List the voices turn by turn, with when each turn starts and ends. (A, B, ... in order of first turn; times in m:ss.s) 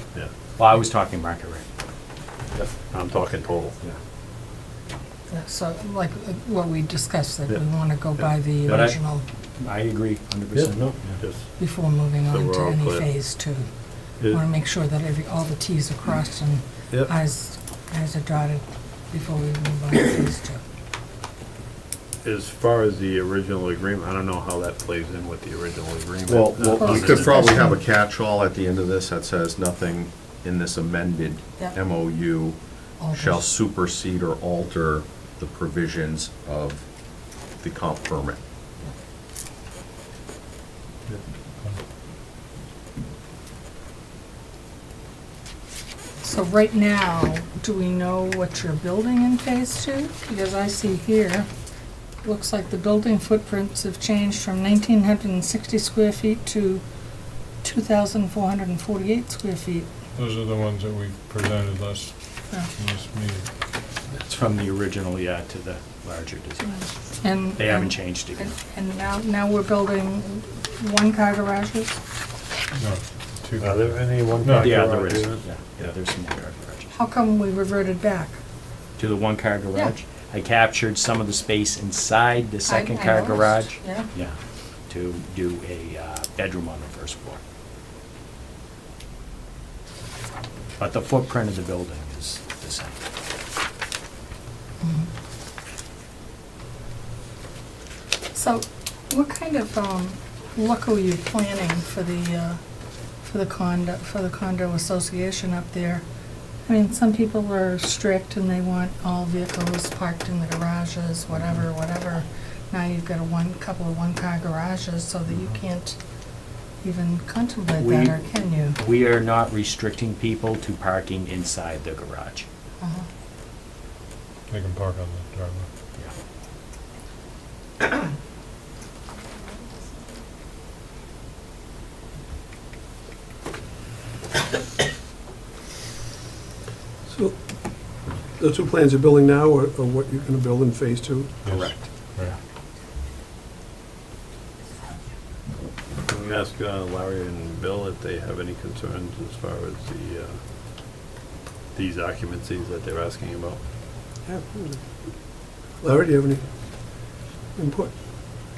0:00.6-0:01.7 A
0:02.6-0:03.8 B
0:05.3-0:09.2 C
0:07.5-0:08.9 B
0:08.7-0:09.0 A
0:09.6-0:11.2 A
0:10.5-0:11.5 B
0:11.6-0:13.7 C
0:12.3-0:13.1 B
0:14.2-0:20.6 C
0:22.2-0:27.4 B
0:26.3-0:36.8 D
0:26.7-0:27.8 C
0:33.0-0:33.4 C
0:37.6-0:38.4 D
0:46.2-0:51.5 C
0:52.2-0:56.8 C
0:57.6-0:59.9 C
1:00.2-1:03.5 E
1:04.1-1:06.8 A
1:06.6-1:12.0 C
1:07.6-1:08.5 A
1:12.8-1:14.9 E
1:13.6-1:16.0 B
1:14.6-1:17.0 A
1:16.9-1:18.4 C
1:19.0-1:24.4 A
1:22.6-1:24.1 C
1:24.9-1:27.4 A
1:30.8-1:33.0 A
1:34.8-1:35.1 C
1:38.3-1:42.6 C
1:43.2-1:46.0 C
1:46.7-1:56.0 C
1:56.8-1:58.8 C
1:57.8-2:02.5 A
2:02.8-2:03.1 C
2:04.5-2:05.7 E
2:17.1-2:17.4 F
2:18.4-2:21.3 F
2:21.4-2:22.4 E
2:21.5-2:22.4 A
2:26.1-2:30.4 B
2:31.8-2:33.6 B
2:34.3-2:34.8 F
2:35.8-2:36.4 F
2:37.0-2:37.9 F